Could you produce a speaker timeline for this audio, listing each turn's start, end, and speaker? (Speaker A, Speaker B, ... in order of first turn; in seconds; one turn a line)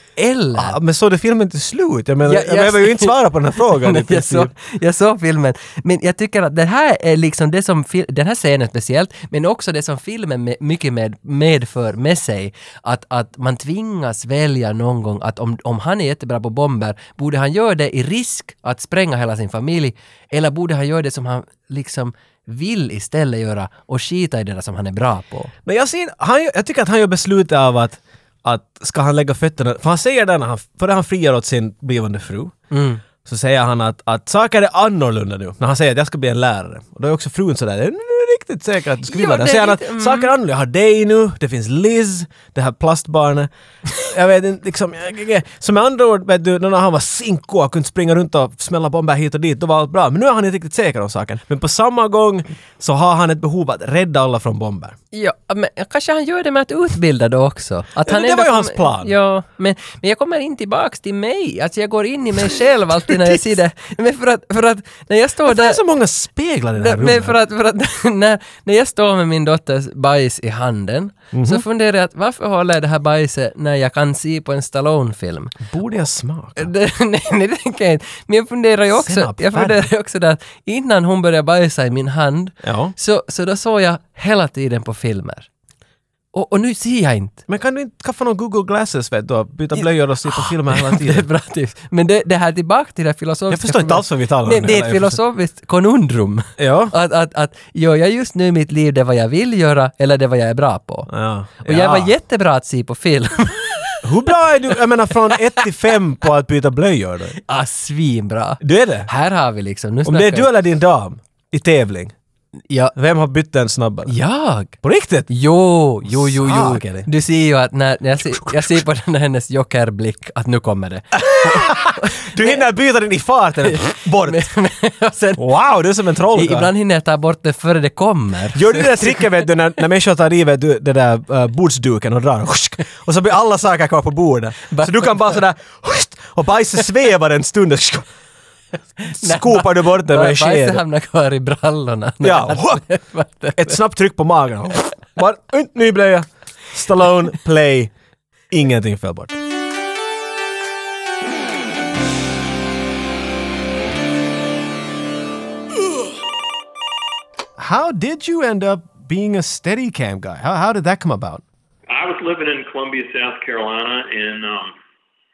Speaker A: 0.2-0.8
Speaker B: 0.6-4.5
Speaker A: 2.2-25.5
Speaker B: 25.6-32.5
Speaker A: 32.7-33.0
Speaker B: 33.2-55.0
Speaker A: 39.0-40.3
Speaker A: 55.1-65.8
Speaker B: 58.0-59.1
Speaker B: 63.1-63.5
Speaker B: 65.5-67.4
Speaker A: 66.8-75.6
Speaker B: 71.3-71.6
Speaker B: 75.7-76.7
Speaker A: 76.6-85.5
Speaker B: 79.0-79.8
Speaker B: 82.6-83.0
Speaker A: 86.3-87.4
Speaker B: 87.5-91.3
Speaker A: 89.8-101.1
Speaker B: 93.5-95.2
Speaker B: 96.6-96.9
Speaker B: 101.1-102.1
Speaker A: 101.6-104.1
Speaker B: 104.0-107.4
Speaker A: 105.3-105.6
Speaker A: 107.5-110.5
Speaker B: 108.6-109.1
Speaker B: 110.0-112.1
Speaker A: 112.7-113.0
Speaker B: 113.0-114.2
Speaker A: 114.1-114.8
Speaker B: 114.8-115.3
Speaker A: 115.3-122.6
Speaker B: 116.1-117.1
Speaker B: 118.3-118.8
Speaker B: 121.3-124.5
Speaker A: 123.7-125.5
Speaker B: 125.4-126.7
Speaker A: 126.3-129.3
Speaker B: 128.5-138.1
Speaker A: 134.7-135.4
Speaker A: 139.0-143.8
Speaker B: 139.2-140.8
Speaker B: 142.2-142.8
Speaker B: 143.6-147.9
Speaker B: 148.5-149.4
Speaker B: 157.6-161.4
Speaker C: 161.9-164.7